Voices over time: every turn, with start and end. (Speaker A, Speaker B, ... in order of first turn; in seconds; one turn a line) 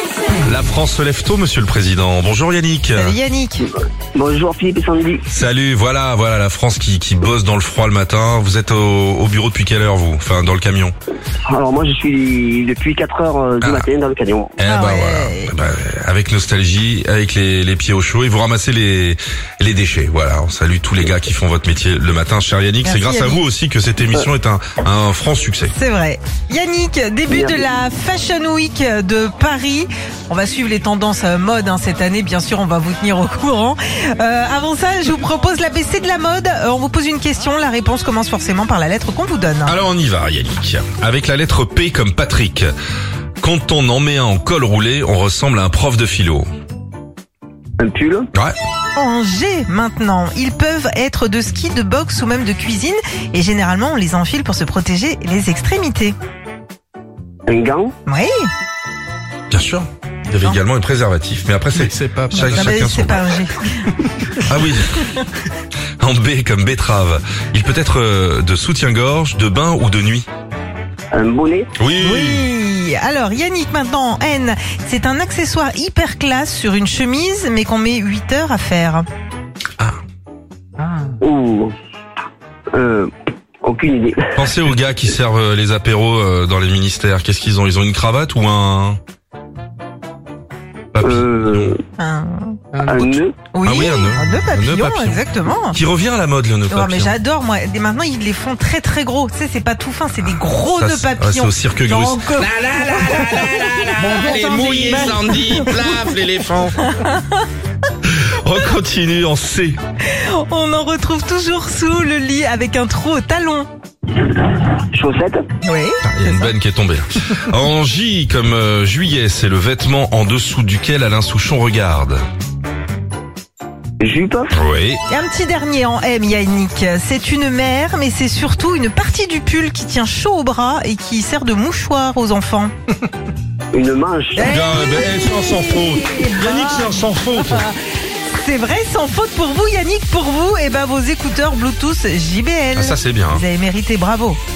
Speaker A: 0.4-3.1
Speaker B: 2.9-3.7
Speaker C: 4.1-5.2
Speaker A: 5.3-10.9
Speaker C: 11.5-14.5
Speaker A: 13.6-13.9
Speaker A: 14.6-25.7
Speaker B: 14.7-15.5
Speaker B: 22.8-23.4
Speaker B: 25.7-39.8
Speaker C: 27.3-27.6
Speaker A: 39.6-42.7
Speaker A: 43.4-46.5
Speaker C: 47.8-48.3
Speaker B: 49.0-56.1
Speaker C: 57.5-57.9
Speaker B: 58.0-58.5
Speaker A: 59.5-63.2
Speaker D: 61.8-62.7
Speaker B: 62.3-63.9
Speaker A: 64.4-65.0
Speaker A: 66.0-70.3
Speaker C: 71.1-71.7
Speaker A: 71.8-72.5
Speaker B: 72.0-79.1
Speaker C: 81.2-81.7
Speaker C: 82.7-83.1
Speaker C: 83.6-84.3
Speaker A: 84.4-89.0
Speaker A: 90.9-91.8
Speaker C: 91.0-91.8
Speaker B: 92.0-92.6
Speaker A: 92.8-97.1
Speaker C: 92.9-93.4
Speaker B: 93.5-95.8
Speaker B: 96.7-106.0
Speaker A: 100.2-102.3
Speaker D: 102.4-106.8
Speaker B: 106.8-107.5
Speaker A: 108.0-109.8
Speaker B: 110.0-113.7
Speaker C: 114.2-115.4
Speaker B: 115.6-116.5
Speaker A: 116.0-122.2
Speaker C: 124.0-124.5
Speaker A: 124.5-125.0
Speaker B: 125.1-132.7
Speaker C: 133.7-134.5
Speaker B: 134.4-137.8
Speaker A: 134.4-137.7
Speaker B: 138.3-144.4
Speaker A: 142.8-143.4